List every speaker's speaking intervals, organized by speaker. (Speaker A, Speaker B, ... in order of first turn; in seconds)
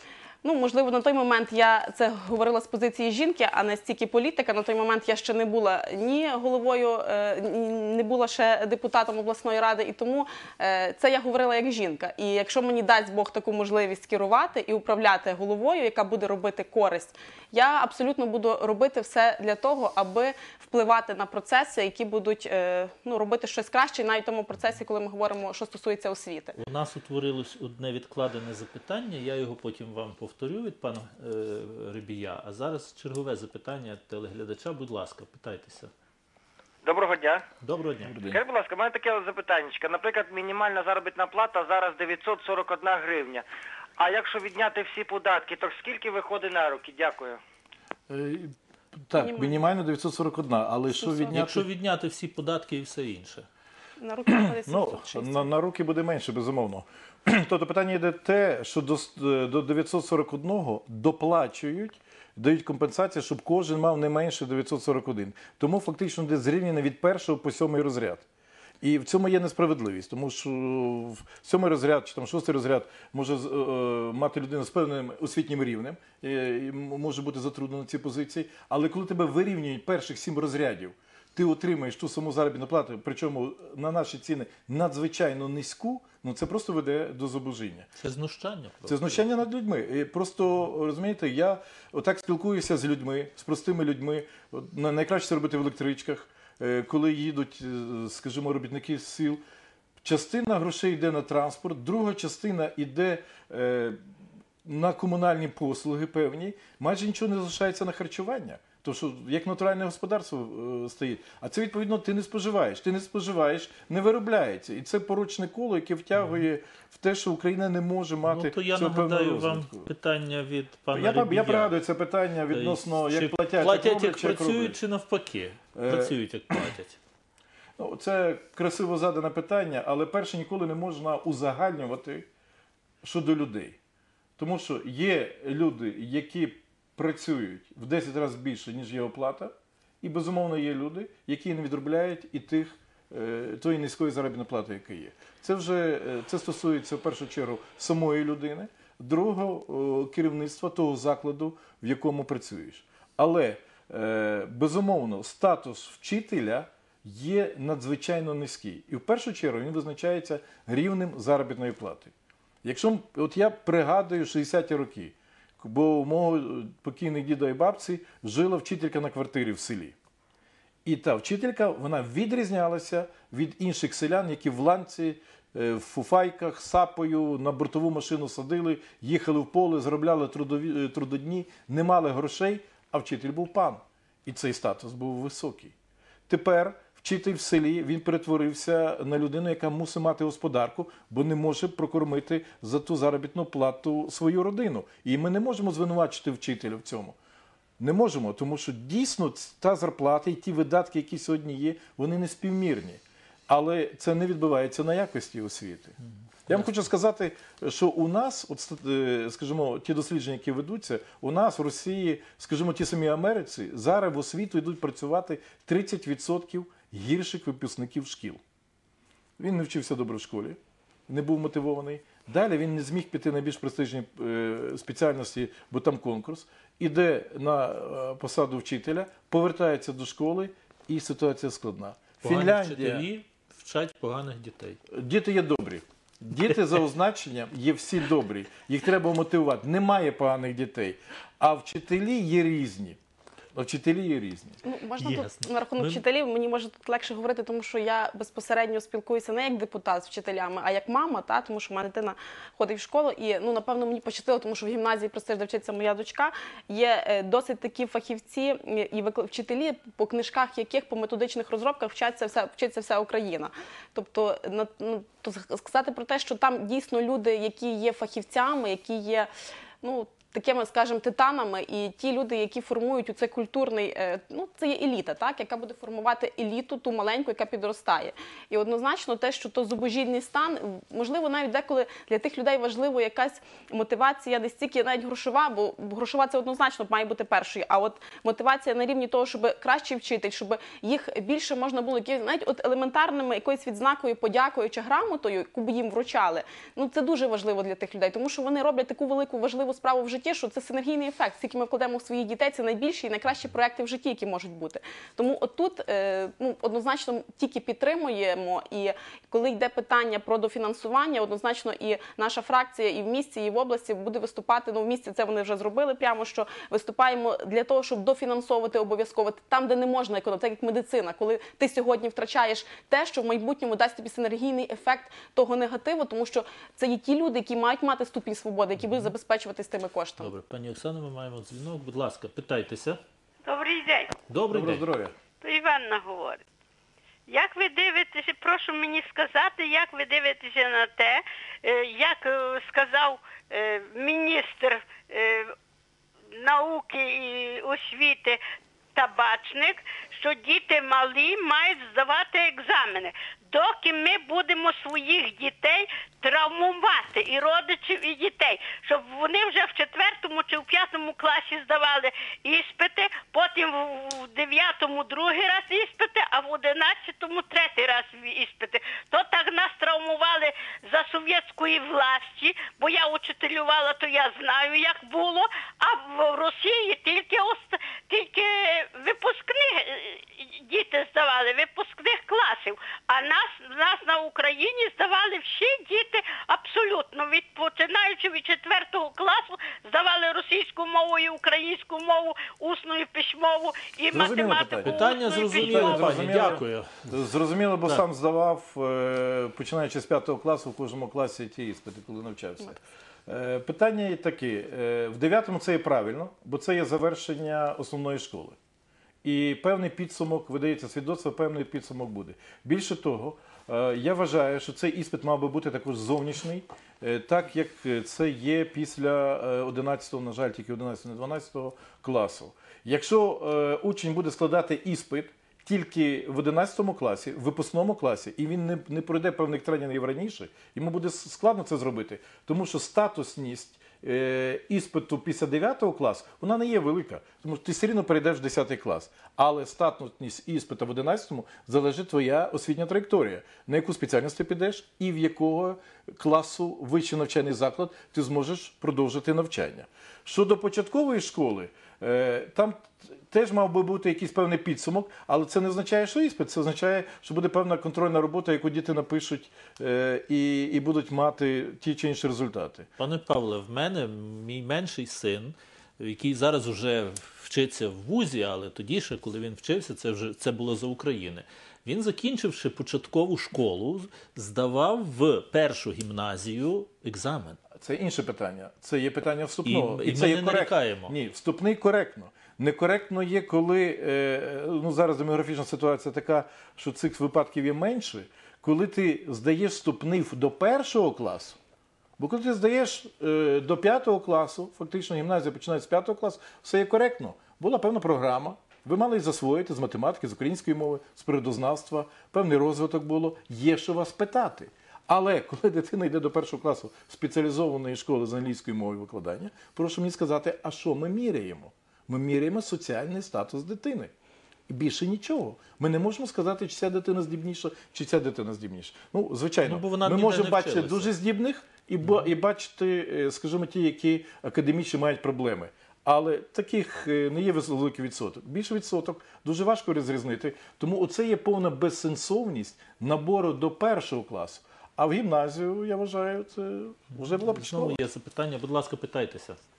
Speaker A: 0.4-26.6, 49.2-49.6, 50.9-51.4, 54.0-55.5, 244.6-269.3, 269.8-330.3
Speaker B: 26.6-35.9, 37.6-38.1, 51.3-53.5, 88.0-89.2, 118.2-121.8, 122.5-127.0, 232.2-234.8, 245.0-246.0, 328.9-329.1, 330.2-333.0, 334.3-334.9, 394.9-397.1, 463.0-477.6, 479.6-481.1, 519.6-521.1, 537.2-539.6
Speaker C: 36.8-37.4, 38.2-43.4, 44.0-47.4
Speaker D: 38.0-38.4, 48.1-51.7, 54.3-68.2, 68.8-87.9, 88.8-99.4, 100.0-104.0, 104.6-119.9, 120.9-124.8, 125.8-126.6, 127.8-132.3, 133.0-133.8, 134.4-162.1, 162.6-169.9, 170.8-185.7, 186.3-197.2, 197.8-218.4, 219.4-233.1, 234.9-243.0, 243.6-244.6, 334.5-335.1, 394.1-408.6, 409.2-462.9, 477.8-491.6, 492.2-514.1, 514.7-538.0
Speaker E: 333.4-334.1, 335.4-336.4, 337.3-345.6, 346.3-348.4, 348.9-396.4